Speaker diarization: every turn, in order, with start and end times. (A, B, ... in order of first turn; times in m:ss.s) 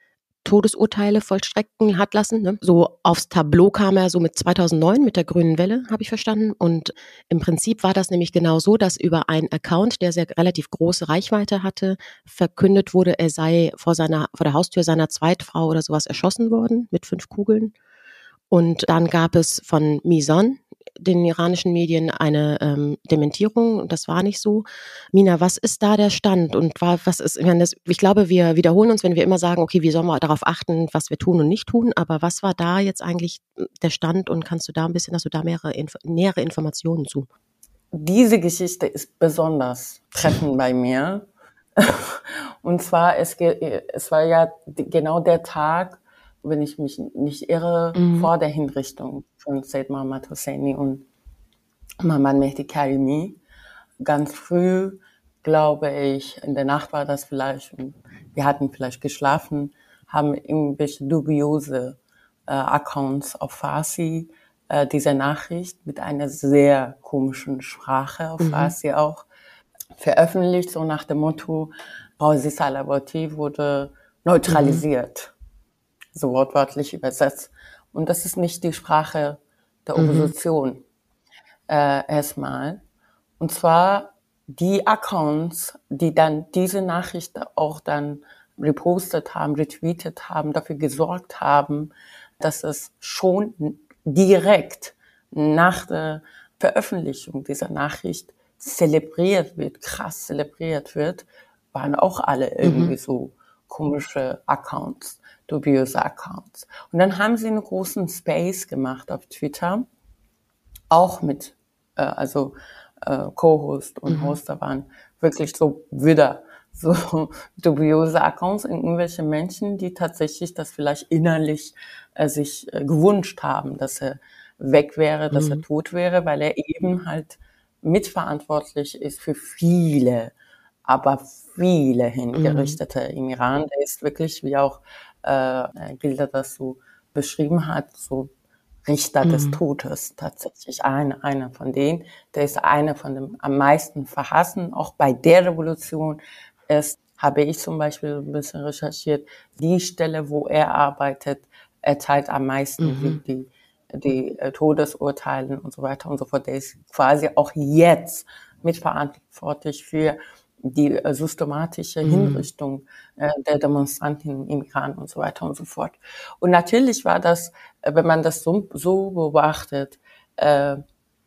0:00.4-0:17.7 A
0:18.5-0:37.3 A
0:37.9-0:41.2 B
0:41.8-0:51.0 B
0:47.9-0:48.3 A
0:52.0-0:53.4 B
0:54.0-1:09.2 B
1:08.4-1:08.7 A
1:10.0-1:15.3 B
1:14.5-1:14.8 A
1:16.1-1:20.8 B
1:20.0-1:20.3 A
1:21.7-1:22.8 B
1:23.4-1:49.9 B
1:42.6-1:43.0 A
1:50.9-2:10.3 B
1:54.1-1:54.4 A
2:05.3-2:05.6 A
2:10.8-2:18.3 B
2:12.3-2:12.8 A
2:18.8-2:50.8 B
2:19.2-2:19.6 A
2:32.8-2:33.2 A
2:42.0-2:42.5 A